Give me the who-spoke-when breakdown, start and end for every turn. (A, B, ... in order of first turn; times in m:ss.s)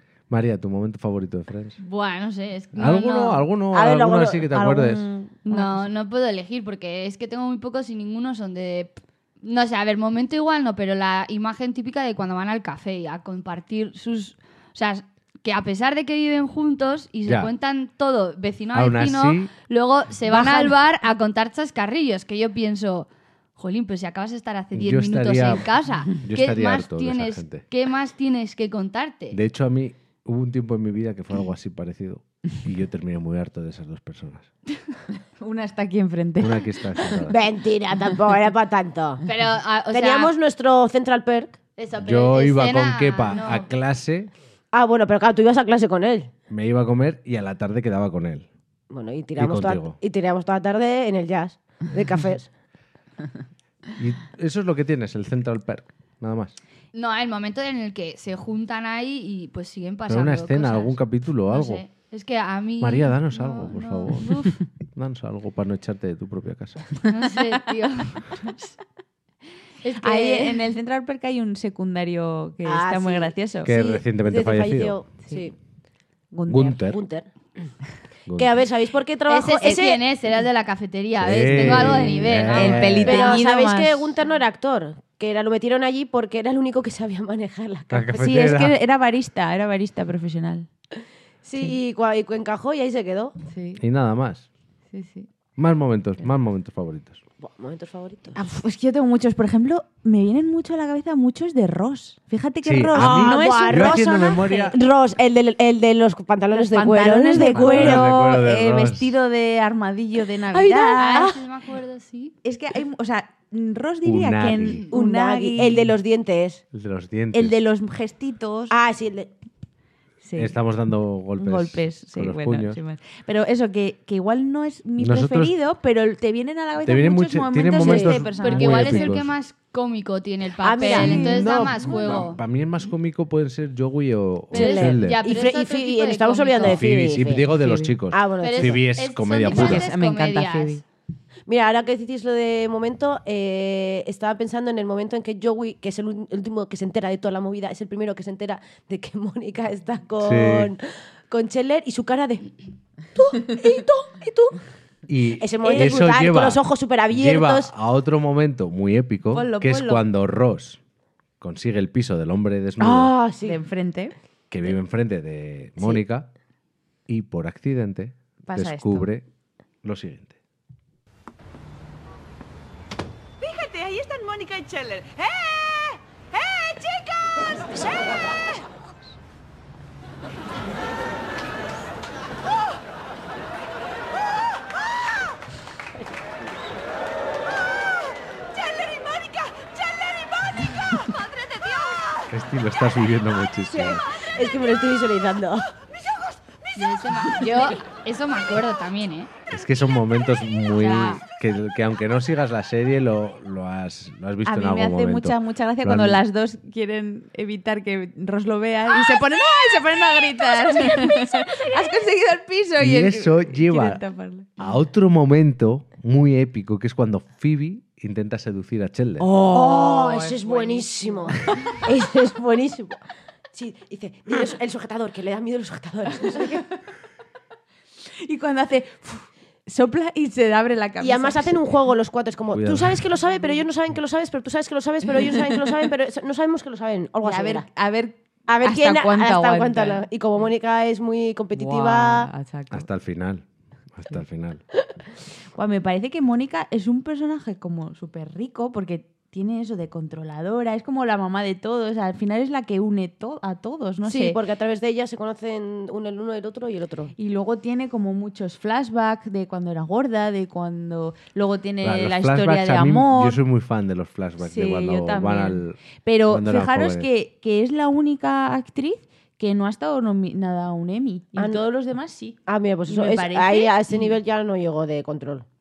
0:00.3-0:01.8 A
0:01.8-0:03.4 B
0:02.7-0:05.1 A
0:03.7-0:04.4 C
0:04.5-0:05.9 D
0:05.5-0:29.4 B
0:18.7-0:19.5 A
0:20.3-0:20.7 D
0:24.7-0:27.6 A
0:29.3-0:34.5 A
0:35.4-0:37.3 D
0:36.4-0:37.4 A
0:37.3-0:39.2 C
0:39.2-0:40.3 B
0:39.9-0:41.6 C
0:41.8-0:43.7 B
0:42.0-0:44.3 A
0:44.7-0:46.3 C
0:46.5-0:48.5 A
0:48.9-0:52.5 C
0:49.4-0:50.0 A
0:54.0-0:56.6 A
0:56.9-1:04.6 B
1:00.1-1:01.8 A
1:02.8-1:06.9 A
1:07.1-1:08.7 B
1:09.8-1:10.6 B
1:10.0-1:13.7 D
1:12.6-1:15.5 C
1:13.6-1:15.0 A
1:16.3-1:16.8 D
1:16.5-1:17.0 A
1:16.9-1:17.3 C
1:18.3-1:20.0 C
1:19.3-1:23.0 B
1:21.2-1:23.4 A
1:21.6-1:24.1 D
1:23.0-1:28.6 C
1:27.9-1:28.8 A
1:28.1-1:30.7 D
1:31.4-1:33.3 C
1:33.5-1:33.8 D
1:33.8-1:34.5 A
1:34.9-1:35.3 D
1:35.6-1:37.2 A
1:37.4-1:38.4 C
1:38.3-1:44.0 D
1:42.6-1:44.8 A
1:42.9-1:48.1 C
1:46.5-1:51.4 D
1:47.4-1:49.2 A
1:50.5-1:51.4 C
1:50.9-1:52.3 B
1:52.4-1:55.9 D
1:54.0-1:54.8 A
1:54.9-1:56.6 C
1:56.7-1:57.6 A
1:57.3-1:58.7 D
1:58.7-1:59.3 C
2:00.2-2:00.5 D
2:00.3-2:02.8 A
2:01.4-2:09.1 D
2:05.0-2:05.5 A
2:06.8-2:09.3 A
2:07.8-2:08.2 C
2:08.4-2:12.4 B
2:10.6-2:12.2 C
2:10.8-2:11.6 D
2:11.2-2:15.2 A
2:14.5-2:17.5 C
2:14.5-2:16.8 B
2:16.6-2:19.9 A
2:17.5-2:17.9 D
2:18.1-2:18.8 C
2:18.4-2:20.8 B
2:19.5-2:20.8 D
2:21.5-2:32.5 C
2:30.2-2:30.7 A
2:33.1-2:34.6 C
2:35.1-2:40.8 A
2:35.4-2:37.7 C
2:35.6-2:36.0 D
2:39.3-2:40.0 D
2:41.4-2:43.1 A
2:42.8-2:43.6 C
2:43.4-2:44.1 D
2:44.5-2:46.3 A
2:47.1-2:49.2 A
2:48.5-2:49.1 D
2:49.8-2:50.3 A
2:53.4-2:58.7 E
3:08.5-3:12.3 E
3:12.3-3:14.0 A
3:13.7-3:15.6 C
3:16.0-3:17.6 E
3:16.8-3:19.3 B
3:19.5-3:26.2 A
3:20.8-3:21.2 B
3:24.4-3:34.6 D
3:32.8-3:34.0 A
3:34.6-3:39.3 A
3:39.2-3:41.9 D
3:39.4-3:43.0 C
3:43.5-3:46.6 C
3:48.2-3:51.6 D
3:51.0-3:57.7 C
3:52.5-3:53.1 A
3:57.2-4:00.0 D
3:58.5-4:02.3 C
4:01.5-4:02.8 D
4:02.7-4:04.6 A
4:05.5-4:14.4 D
4:14.0-4:17.1 C
4:17.2-4:23.4 D
4:21.8-4:27.1 A
4:24.4-4:34.1 D
4:31.4-4:31.6 C
4:32.4-4:35.4 C